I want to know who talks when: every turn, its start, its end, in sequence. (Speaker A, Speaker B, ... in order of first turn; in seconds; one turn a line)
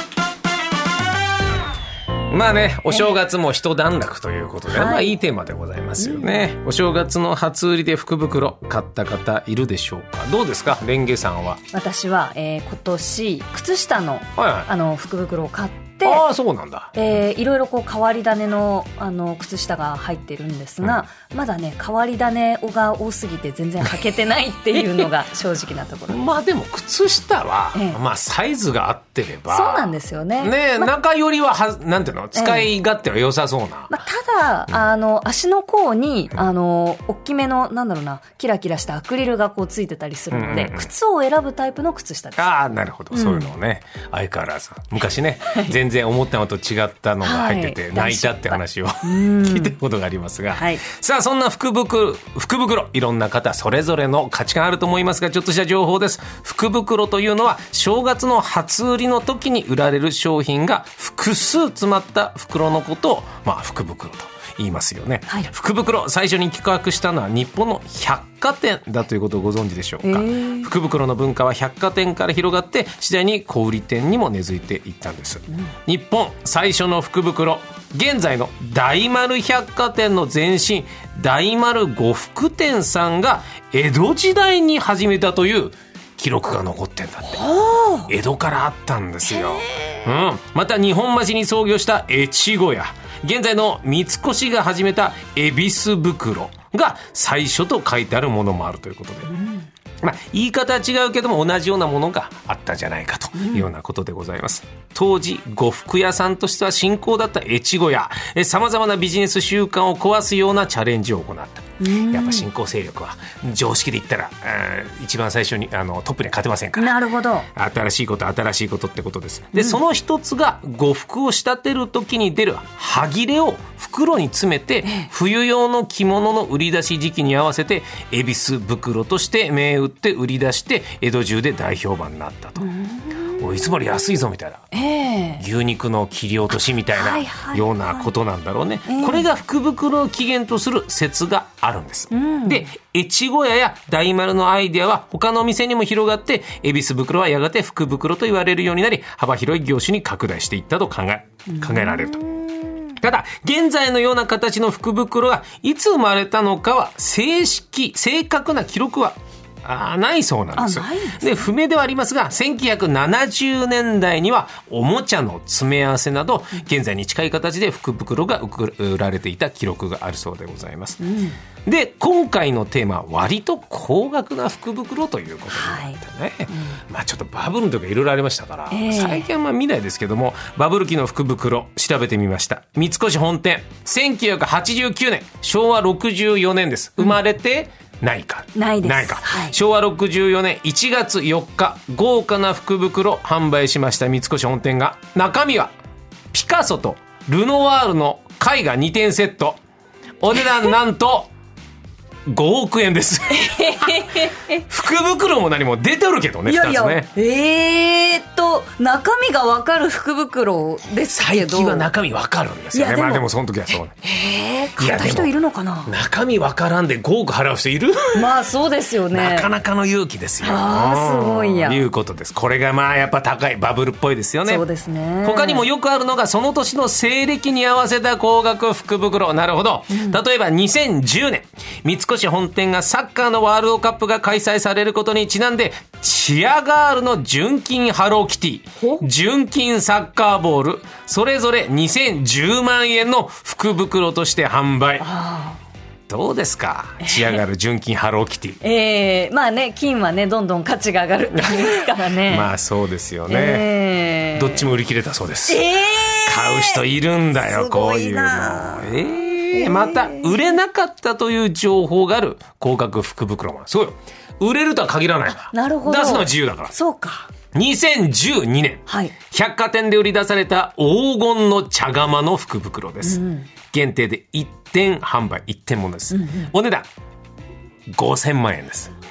Speaker A: 2.3-11.6
Speaker B: 4.7-5.1
Speaker B: 6.0-6.5
Speaker B: 11.7-16.2
Speaker A: 14.4-14.7
Speaker A: 16.0-16.9
Speaker B: 16.9-26.2
Speaker A: 26.1-34.0
Speaker B: 27.7-28.0
Speaker B: 29.5-30.9
Speaker B: 32.3-32.7
Speaker B: 33.9-42.5
Speaker A: 40.3-40.9
Speaker A: 42.4-87.4
Speaker B: 43.1-43.5
Speaker B: 45.5-45.7
Speaker B: 47.2-49.7
Speaker B: 50.5-50.8
Speaker B: 70.0-70.7
Speaker B: 87.3-88.1
Speaker A: 88.1-99.3
Speaker B: 89.3-90.0
Speaker B: 99.3-99.7
Speaker A: 100.0-117.0
Speaker B: 103.4-103.7
Speaker B: 111.8-112.5
Speaker B: 116.8-117.5
Speaker A: 117.5-132.7
Speaker B: 119.5-119.8
Speaker B: 124.8-125.1
Speaker B: 132.6-134.0
Speaker A: 133.4-134.7
Speaker B: 134.7-135.4
Speaker A: 135.4-152.2
Speaker B: 136.9-138.1
Speaker B: 138.9-139.3
Speaker B: 142.1-142.7
Speaker B: 151.4-153.0
Speaker A: 153.0-171.0
Speaker B: 160.6-161.5
Speaker B: 171.0-171.4
Speaker A: 171.6-195.7
Speaker B: 175.5-176.8
Speaker B: 178.7-179.3
Speaker B: 188.6-189.6
Speaker A: 196.3-199.6
Speaker A: 200.2-201.3
Speaker A: 202.2-207.1
Speaker B: 203.3-204.7
Speaker B: 206.4-211.9
Speaker A: 211.1-213.9
Speaker B: 212.7-215.9
Speaker A: 214.8-215.3
Speaker A: 215.8-218.3
Speaker B: 218.1-219.5
Speaker A: 219.1-224.7
Speaker B: 220.4-221.8
Speaker B: 224.4-225.7
Speaker A: 225.2-245.1
Speaker B: 229.9-230.2
Speaker B: 238.8-239.1
Speaker B: 245.0-245.6
Speaker A: 246.1-248.6
Speaker B: 247.0-247.4
Speaker B: 248.6-252.5
Speaker A: 251.3-253.7
Speaker B: 253.3-254.7
Speaker A: 254.3-255.7
Speaker B: 255.5-256.8
Speaker A: 256.2-266.8
Speaker B: 257.4-260.4
Speaker B: 265.4-267.3
Speaker A: 267.5-276.9
Speaker B: 268.9-269.1
Speaker B: 273.0-273.5
Speaker B: 276.1-276.5
Speaker A: 277.9-278.9